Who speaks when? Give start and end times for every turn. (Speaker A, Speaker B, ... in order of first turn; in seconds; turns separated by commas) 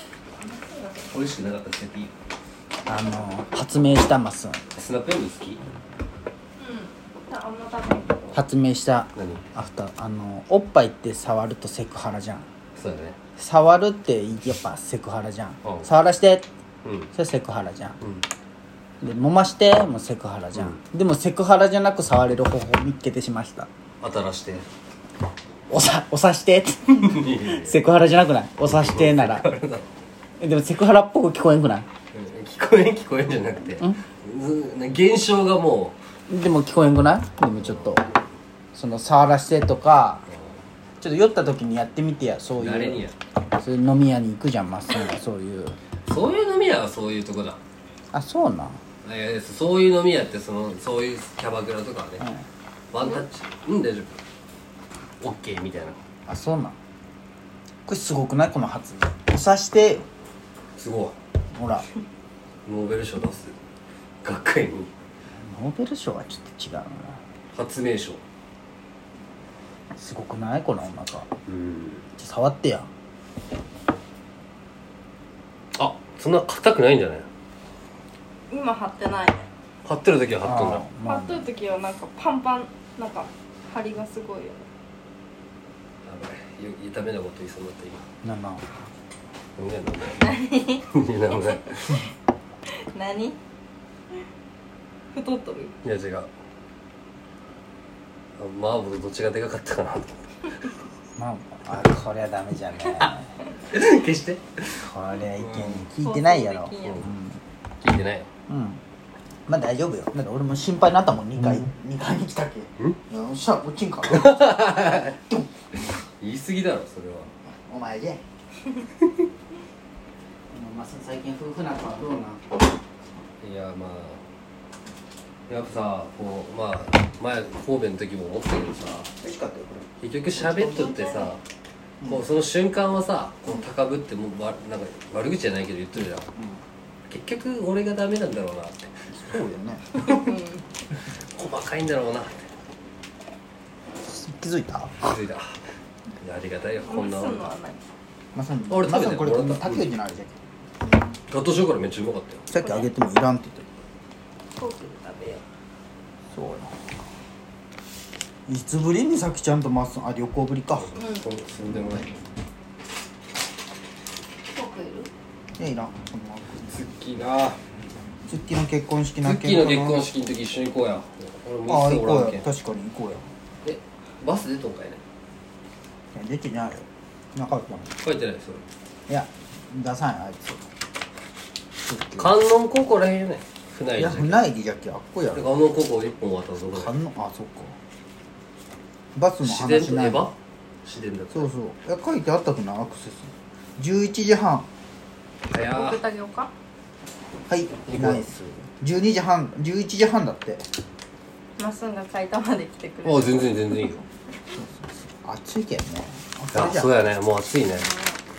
Speaker A: 0.4-1.1, Speaker B: 1.1-2.1, Speaker C: 2.9-4.6, Speaker B: 4.7-5.6, Speaker A: 6.6-8.3, Speaker C: 8.3-12.5, Speaker B: 9.2-9.4, Speaker B: 12.8-13.2, Speaker C: 13.4-16.5, Speaker B: 15.6-15.9, Speaker B: 16.8-17.1, Speaker C: 17.1-18.0, Speaker C: 19.0-23.7, Speaker B: 20.5-20.8, Speaker B: 24.0-24.6, Speaker C: 25.7-29.5, Speaker B: 27.0-27.8, Speaker B: 28.7-29.9, Speaker C: 30.4-31.9, Speaker B: 32.1-36.0, Speaker C: 36.3-38.1, Speaker B: 37.6-38.1, Speaker C: 38.7-40.2, Speaker C: 41.0-45.8, Speaker B: 42.6-43.1, Speaker B: 46.0-47.6, Speaker C: 48.1-48.8, Speaker B: 49.0-52.2, Speaker B: 52.9-54.2, Speaker B: 55.2-56.0, Speaker C: 56.3-56.8, Speaker C: 57.9-60.0, Speaker B: 60.8-61.2, Speaker C: 61.5-61.9, Speaker B: 62.6-63.5, Speaker B: 64.2-64.9, Speaker C: 65.4-67.2, Speaker B: 67.5-68.2, Speaker C: 70.0-71.3, Speaker B: 71.5-72.0, Speaker C: 72.2-72.9, Speaker B: 75.8-77.3, Speaker A: 78.5-79.4, Speaker B: 79.8-80.8, Speaker C: 80.4-81.5, Speaker A: 81.0-84.7, Speaker B: 86.0-88.0, Speaker C: 88.2-88.7, Speaker B: 89.6-90.3, Speaker A: 90.1-90.8, Speaker B: 90.9-92.0, Speaker A: 92.7-93.4, Speaker A: 95.1-95.8, Speaker B: 95.8-96.3, Speaker B: 98.4-100.3, Speaker C: 101.2-103.3, Speaker B: 103.7-105.9, Speaker C: 104.8-107.4, Speaker A: 106.0-107.1, Speaker B: 107.8-108.3, Speaker C: 108.5-108.8, Speaker C: 109.5-115.5, Speaker B: 114.1-115.2, Speaker B: 116.2-117.3, Speaker C: 117.5-118.2, Speaker C: 120.5-122.7, Speaker B: 123.4-124.2, Speaker B: 125.5-129.1, Speaker C: 129.2-131.3, Speaker B: 130.0-131.4, Speaker B: 132.0-136.3, Speaker C: 136.3-136.6, Speaker B: 137.1-139.4, Speaker C: 139.1-140.0, Speaker B: 139.9-140.3, Speaker A: 140.0-140.6, Speaker B: 141.2-142.5, Speaker C: 144.0-144.9, Speaker B: 145.0-145.6, Speaker B: 146.2-147.5, Speaker A: 146.8-147.8, Speaker C: 148.3-150.4, Speaker B: 148.7-149.8, Speaker B: 151.3-152.4, Speaker C: 152.5-153.7, Speaker A: 152.6-152.9, Speaker A: 154.5-155.4, Speaker C: 156.3-156.9, Speaker C: 158.5-161.0, Speaker B: 160.8-162.2, Speaker A: 160.9-161.2, Speaker A: 164.5-165.1, Speaker C: 165.6-166.7, Speaker B: 166.6-167.6, Speaker C: 168.3-170.1, Speaker B: 169.2-172.4, Speaker C: 171.7-173.3, Speaker B: 173.6-175.0, Speaker C: 176.1-178.0, Speaker B: 178.0-178.6, Speaker C: 179.1-180.6, Speaker C: 181.8-182.3, Speaker B: 182.2-184.5, Speaker C: 184.0-185.5, Speaker B: 185.3-186.9, Speaker C: 186.7-187.8, Speaker C: 189.1-190.3, Speaker B: 189.4-190.3, Speaker B: 190.8-191.5, Speaker C: 191.3-194.7, Speaker B: 195.5-196.0, Speaker A: 195.5-196.5, Speaker C: 197.5-200.7, Speaker B: 197.9-198.2, Speaker A: 201.6-204.0, Speaker B: 203.0-204.0, Speaker C: 204.5-206.9, Speaker B: 206.5-207.9, Speaker A: 207.8-208.2